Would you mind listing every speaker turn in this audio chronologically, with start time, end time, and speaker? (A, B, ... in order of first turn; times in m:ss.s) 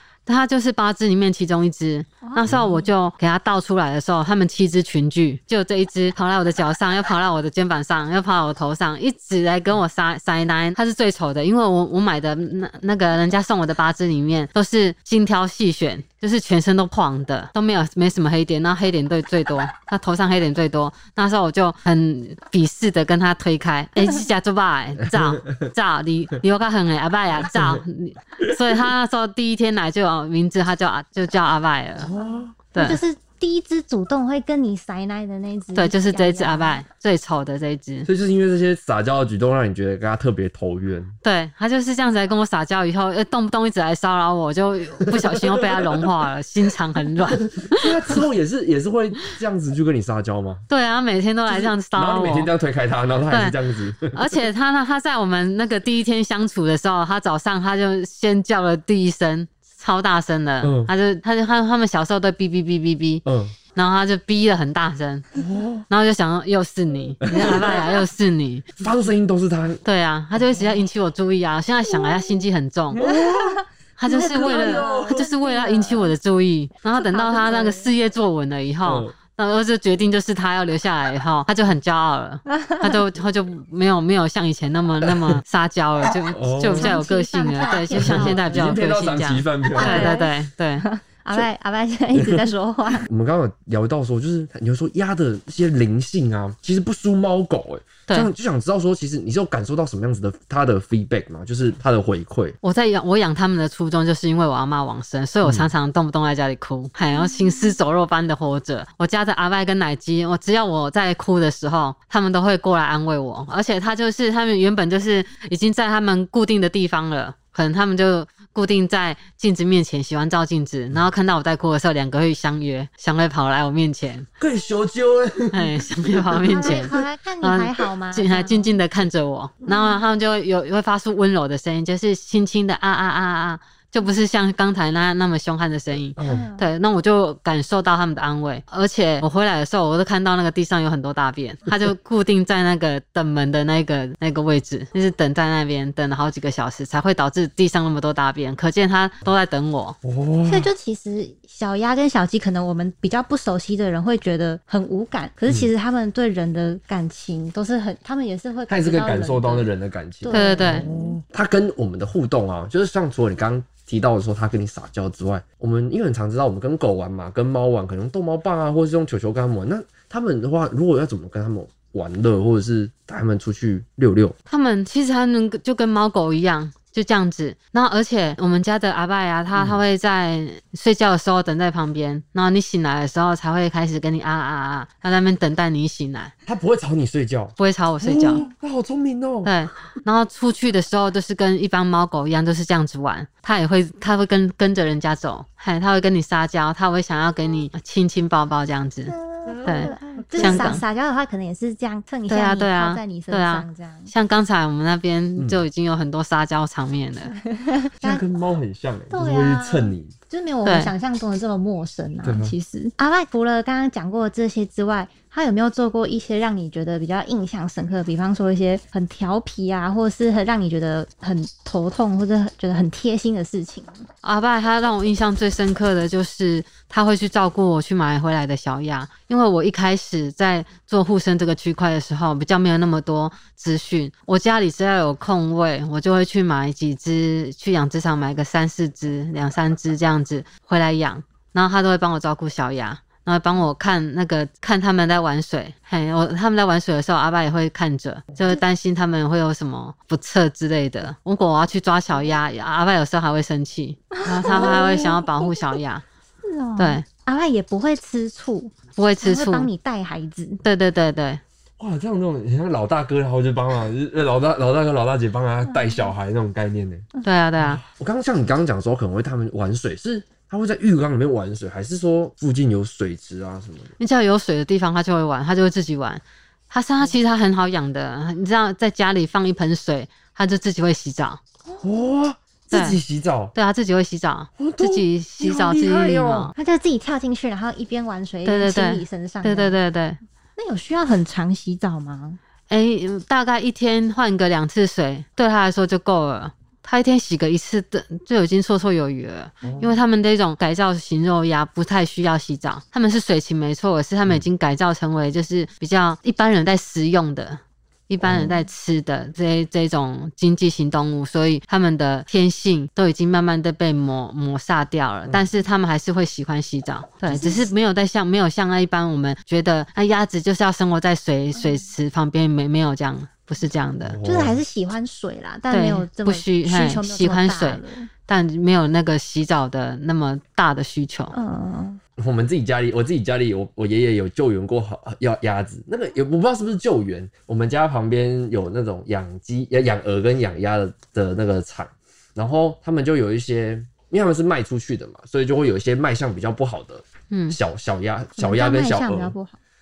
0:00.2-0:32.1 A
0:02.2-0:02.9 B
0:25.0-0:25.6 C
0:27.4-0:27.8 C
0:28.4-0:28.7 C
0:32.0-0:32.6 C
0:32.2-0:36.8 B
0:32.7-0:33.0 A
0:35.7-0:38.1 A
0:38.0-0:41.1 C
0:41.2-0:47.9 A
0:45.2-0:46.1 C
0:47.7-0:50.6 C
0:50.7-0:52.5 A
0:51.5-0:54.4 C
0:53.3-1:03.2 A
1:00.6-1:00.9 C
1:03.2-1:03.6 C
1:03.7-1:05.2 A
1:05.3-1:05.9 C
1:05.9-1:08.7 A
1:07.2-1:07.9 C
1:08.8-1:09.8 C
1:09.8-1:13.0 A
1:12.9-1:15.3 C
1:13.0-1:16.1 B
1:14.0-1:31.4 A
1:17.0-1:17.9 B
1:18.8-1:19.1 C
1:22.5-1:23.0 B
1:25.0-1:25.4 C
1:26.3-1:27.0 C
1:26.8-1:28.8 B
1:27.9-1:30.2 C
1:29.6-1:33.1 B
1:32.1-1:32.4 C
1:33.0-1:42.6 C
1:42.6-2:04.3 A
1:45.4-1:45.7 C
2:04.4-2:06.8 C
2:05.5-2:30.0 A
2:06.4-2:08.8 B
2:09.6-2:10.0 B
2:16.2-2:16.4 C
2:16.2-2:16.7 B
2:30.0-2:30.7 C
2:30.4-2:39.7 B
2:38.7-2:54.4 C
2:40.2-2:41.2 B
2:40.3-2:40.9 A
2:54.5-3:06.3 A
2:59.5-2:59.8 C
3:06.4-3:09.6 C
3:07.6-3:08.4 A
3:09.4-3:20.8 A
3:19.1-3:24.1 B
3:19.4-3:20.8 C
3:22.3-3:27.3 A
3:25.4-3:25.6 C
3:27.3-3:28.2 B
3:28.0-3:30.1 C
3:29.1-3:44.0 B
3:30.6-3:30.9 A
3:32.2-3:32.6 C
3:44.2-4:16.0 A
4:14.2-4:15.5 B
4:14.4-4:15.1 C
4:16.4-4:20.6 B
4:16.8-4:17.0 A
4:19.0-4:19.7 A
4:20.6-4:21.4 A
4:21.8-4:27.0 C
4:25.6-4:26.1 B
4:27.2-4:27.8 A
4:27.6-4:33.9 C
4:34.0-4:41.4 A
4:41.8-4:43.5 C
4:42.7-4:43.0 A
4:43.5-4:46.5 A
4:44.6-4:46.5 C
4:46.5-4:49.8 B
4:48.4-4:50.2 A
4:50.6-4:52.4 B
4:52.7-5:24.2 A
4:59.6-5:00.0 C
5:08.2-5:08.6 C
5:17.2-5:17.7 B
5:21.6-5:21.8 B
5:24.0-5:24.6 C
5:24.2-5:28.1 B
5:25.7-5:31.3 A
5:31.3-5:32.0 B
5:32.2-5:49.3 C
5:47.3-5:47.6 A
5:48.4-5:49.6 B